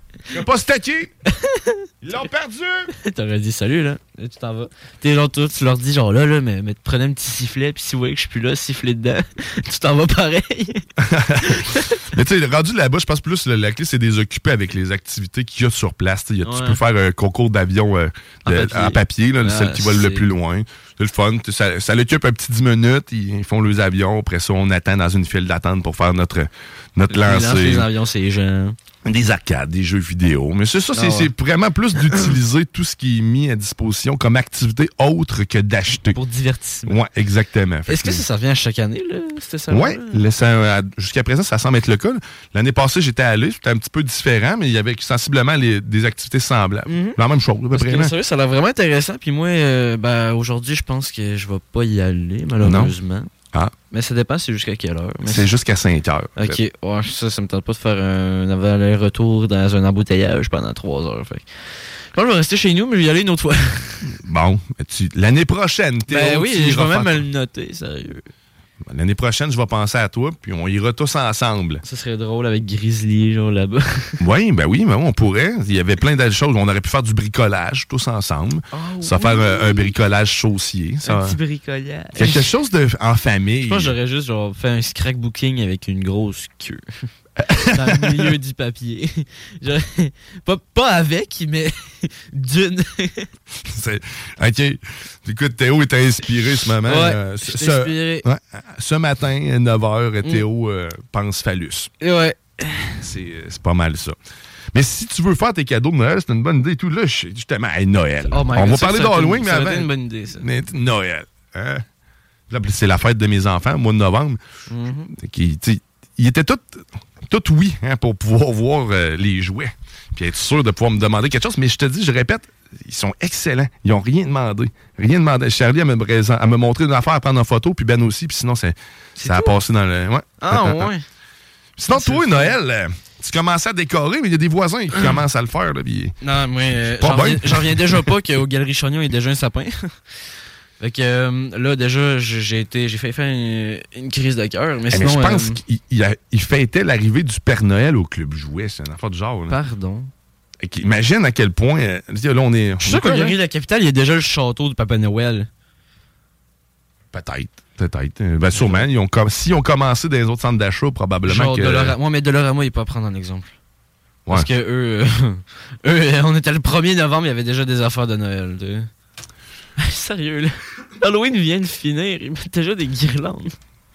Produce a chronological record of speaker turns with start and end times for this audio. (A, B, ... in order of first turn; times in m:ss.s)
0:00.3-0:01.1 A
0:01.4-0:02.3 B
0:02.0-0:02.9 A
0:03.0-0:10.9 B
0:11.0-0:27.9 A
0:11.4-0:12.0 B
0:16.4-0:16.8 B
0:18.5-0:20.3 B
0:27.1-0:28.8 B
0:29.0-0:36.2 A
0:31.0-0:31.3 B
0:32.0-0:32.3 B
0:36.1-0:37.0 B
0:36.9-0:38.2 A
0:37.9-0:40.2 B
0:39.7-0:48.1 A
0:46.9-0:47.2 B
0:47.7-0:53.3 B
0:52.6-0:52.9 A
0:53.9-0:55.5 B
0:55.2-0:56.6 A
0:56.4-1:01.5 B
1:02.1-1:04.1 B
1:04.1-1:07.2 A
1:06.1-1:08.2 B
1:08.8-1:11.8 A
1:11.8-1:14.2 B
1:14.2-1:21.4 A
1:18.7-1:19.9 B
1:21.0-1:22.5 B
1:22.2-1:24.0 A
1:23.6-1:27.0 B
1:27.4-1:28.4 A
1:27.7-1:33.3 B
1:33.7-1:41.9 A
1:36.9-1:38.2 B
1:42.0-1:43.0 B
1:43.0-1:44.2 A
1:44.7-1:51.8 A
1:48.3-1:50.5 B
1:52.5-1:54.4 A
1:54.7-1:55.1 B
1:55.1-2:10.9 A
2:09.2-2:09.6 B
2:10.4-2:11.0 B
2:11.8-2:16.1 A
2:11.9-2:12.6 B
2:16.2-2:19.9 B
2:16.8-2:18.1 A
2:20.8-2:25.6 B
2:24.9-2:29.6 A
2:29.5-2:30.1 B
2:30.6-2:33.4 A
2:32.8-2:35.5 B
2:37.1-2:42.0 A
2:38.5-2:38.9 B
2:41.3-2:43.5 B
2:44.3-2:48.9 B
2:49.8-2:53.5 B